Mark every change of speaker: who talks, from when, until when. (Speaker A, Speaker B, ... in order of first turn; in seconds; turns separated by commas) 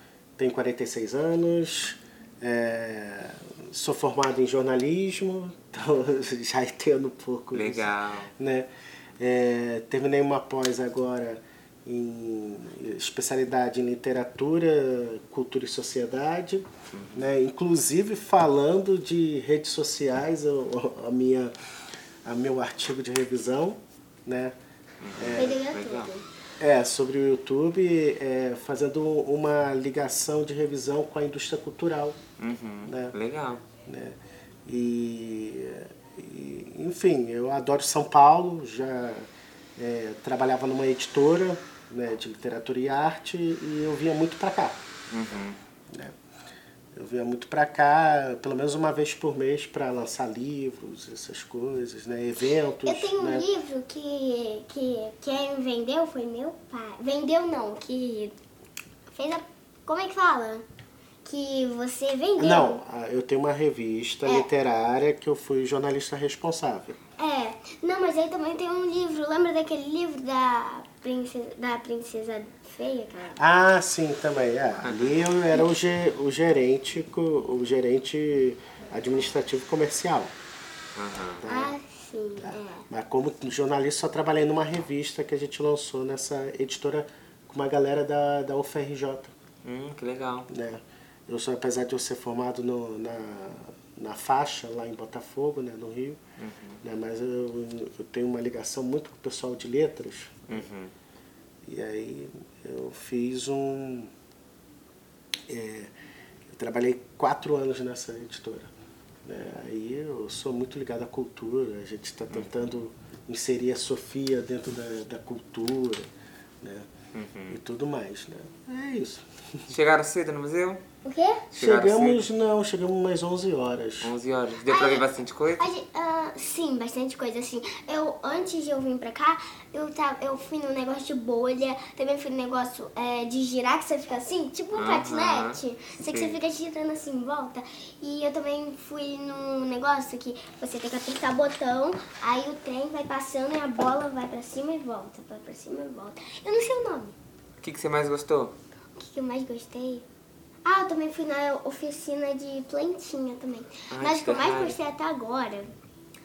Speaker A: 0.4-21.5, Speaker B: 7.5-8.3, Speaker B: 16.9-17.3, Speaker A: 22.2-24.5, Speaker B: 25.0-26.1, Speaker A: 25.1-25.6, Speaker C: 25.3-26.2, Speaker A: 26.6-32.2, Speaker B: 32.4-33.6, Speaker A: 32.8-33.1, Speaker A: 33.8-44.8, Speaker B: 45.1-45.6, Speaker A: 46.9-53.5, Speaker C: 52.8-58.3, Speaker C: 59.1-60.6, Speaker C: 61.2-62.8, Speaker A: 62.4-67.0, Speaker C: 64.2-64.5, Speaker C: 67.2-73.4, Speaker A: 73.4-80.3, Speaker B: 74.8-75.1, Speaker B: 81.0-81.4, Speaker A: 81.4-81.8, Speaker C: 81.5-82.8, Speaker A: 82.4-89.3, Speaker B: 89.6-90.5, Speaker A: 90.5-96.2, Speaker B: 96.4-96.8, Speaker A: 96.8-100.6, Speaker B: 100.5-100.9, Speaker A: 101.7-104.1, Speaker A: 105.5-105.9, Speaker A: 106.5-108.7, Speaker A: 109.2-116.1, Speaker A: 116.6-116.9, Speaker B: 117.1-117.6, Speaker A: 117.5-119.3, Speaker B: 119.7-120.8, Speaker C: 121.0-121.4, Speaker A: 121.5-124.1, Speaker B: 121.5-122.3, Speaker B: 124.0-125.7, Speaker C: 124.6-147.2, Speaker B: 134.7-135.6, Speaker B: 136.1-136.4, Speaker B: 147.6-148.5, Speaker C: 148.9-150.0, Speaker C: 150.6-155.7, Speaker B: 153.9-154.8